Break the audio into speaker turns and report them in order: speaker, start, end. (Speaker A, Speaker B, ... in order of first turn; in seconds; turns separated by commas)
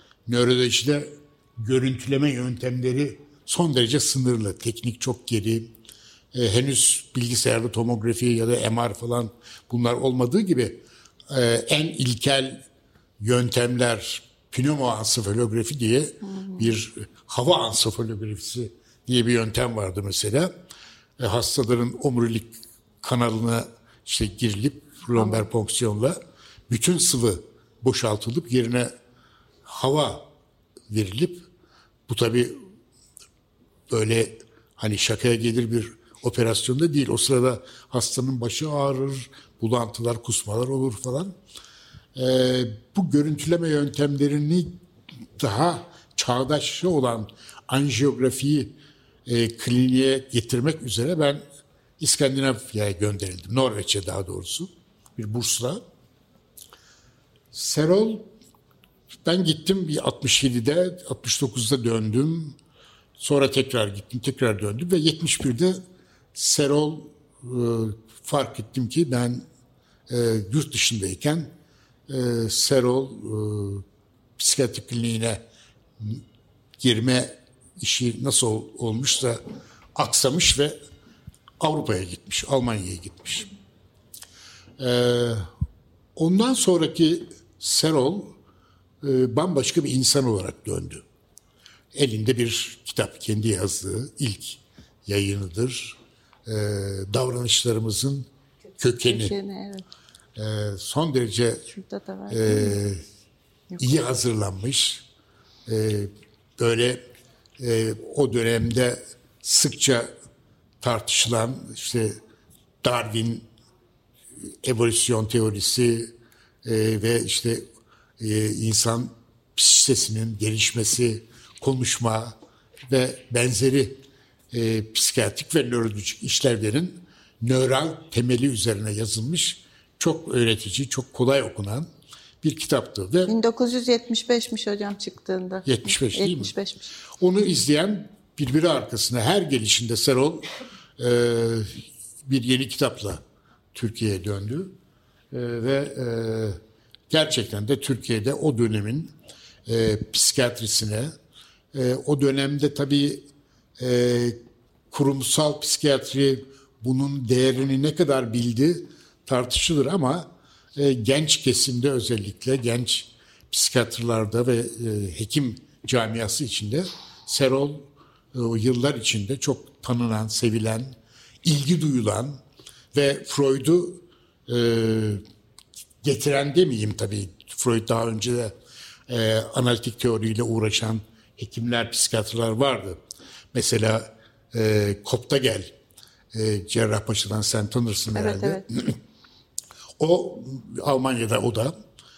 Speaker A: 0.2-5.7, Speaker A: 6.3-12.6, Speaker A: 13.2-20.5, Speaker B: 16.3-16.7, Speaker A: 21.2-26.2, Speaker B: 25.1-25.4, Speaker A: 26.7-28.9, Speaker A: 29.6-30.3, Speaker A: 30.9-31.4, Speaker A: 32.1-32.6, Speaker A: 33.9-41.3, Speaker A: 42.1-44.7, Speaker A: 45.4-48.7, Speaker A: 49.3-51.4, Speaker A: 52.0-55.8, Speaker A: 57.5-58.3, Speaker A: 59.2-62.6, Speaker A: 63.2-65.8, Speaker A: 66.3-69.4, Speaker A: 70.1-71.5, Speaker A: 72.1-73.8, Speaker A: 74.4-75.4, Speaker A: 76.8-79.4, Speaker A: 79.9-80.8, Speaker A: 81.6-83.5, Speaker A: 84.8-85.5, Speaker A: 86.2-88.3, Speaker A: 89.0-91.0, Speaker A: 91.9-98.3, Speaker A: 98.8-99.3, Speaker B: 99.1-99.8, Speaker A: 100.3-101.7, Speaker B: 101.7-102.8, Speaker A: 102.3-103.0, Speaker A: 103.8-105.0, Speaker A: 105.7-107.0, Speaker A: 107.6-110.1, Speaker A: 110.8-112.2, Speaker A: 112.8-113.5, Speaker A: 114.6-116.1, Speaker A: 116.6-117.7, Speaker A: 118.2-122.3, Speaker A: 122.9-124.0, Speaker A: 124.5-131.9, Speaker A: 132.4-133.3, Speaker B: 133.3-136.9, Speaker A: 135.6-136.5, Speaker A: 137.2-140.4, Speaker A: 141.0-143.2, Speaker A: 143.7-144.7, Speaker A: 145.3-149.1, Speaker A: 149.7-151.1, Speaker A: 151.7-153.2, Speaker A: 153.8-154.4, Speaker A: 154.9-172.4, Speaker A: 172.9-175.2, Speaker A: 176.0-178.5, Speaker A: 179.1-183.0, Speaker A: 183.5-185.7, Speaker A: 186.3-189.0, Speaker B: 188.1-188.6, Speaker A: 190.0-191.7